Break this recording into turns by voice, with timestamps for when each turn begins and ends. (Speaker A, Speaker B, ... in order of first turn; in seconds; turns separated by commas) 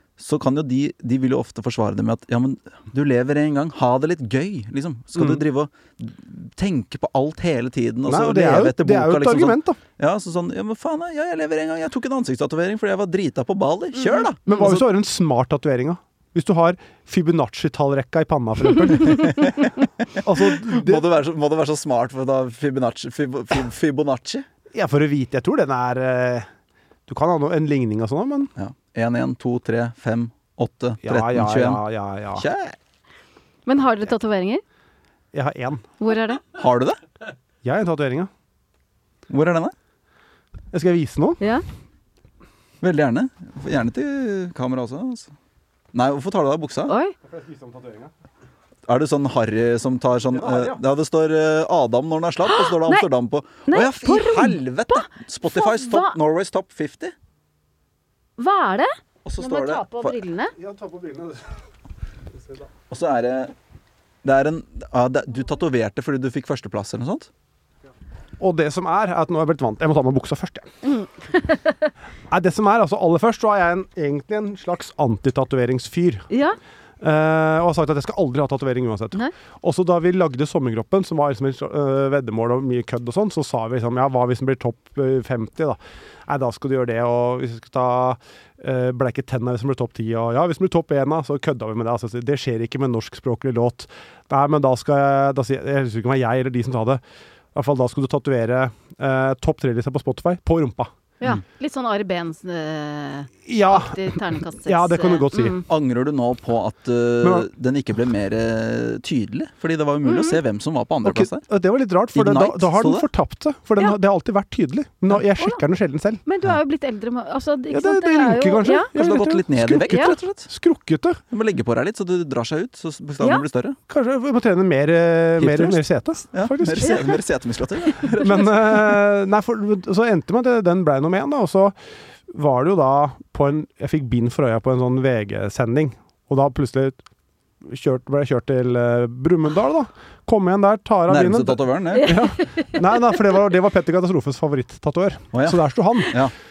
Speaker A: 0.2-14.8, Speaker B: 5.2-5.4, Speaker B: 8.1-9.8, Speaker B: 14.5-19.6, Speaker A: 19.0-24.5, Speaker B: 20.2-21.1, Speaker B: 24.7-26.5, Speaker B: 27.1-28.5, Speaker A: 28.6-31.8, Speaker B: 31.0-32.5, Speaker A: 32.3-32.8, Speaker C: 33.6-34.6, Speaker B: 35.3-35.9, Speaker C: 36.0-36.4, Speaker A: 36.5-37.0, Speaker B: 37.6-38.3, Speaker A: 39.3-39.7, Speaker B: 40.7-41.4, Speaker A: 42.8-45.3, Speaker A: 45.9-46.9, Speaker C: 46.9-47.1, Speaker B: 47.3-48.1, Speaker A: 48.9-57.1, Speaker B: 50.3-50.8, Speaker C: 52.5-53.0, Speaker C: 53.7-56.1, Speaker C: 58.4-60.5, Speaker A: 59.2-60.2, Speaker B: 60.5-61.6, Speaker A: 62.9-63.5, Speaker A: 64.2-67.3, Speaker B: 68.4-70.7, Speaker C: 70.8-71.9, Speaker B: 72.3-76.3, Speaker C: 76.3-76.6, Speaker B: 77.0-97.0, Speaker B: 97.5-100.9, Speaker C: 101.2-105.7, Speaker B: 103.5-105.6, Speaker A: 105.7-111.4, Speaker C: 110.0-110.4, Speaker B: 111.0-116.2, Speaker A: 112.1-113.1, Speaker C: 116.2-118.9, Speaker B: 117.7-121.2, Speaker A: 118.9-120.5, Speaker C: 119.9-120.1, Speaker A: 121.3-123.8, Speaker B: 123.9-127.1, Speaker A: 125.4-128.9, Speaker B: 128.2-131.7, Speaker B: 132.3-137.0, Speaker B: 137.7-146.2, Speaker A: 141.1-142.1, Speaker C: 141.9-142.8, Speaker A: 145.3-146.3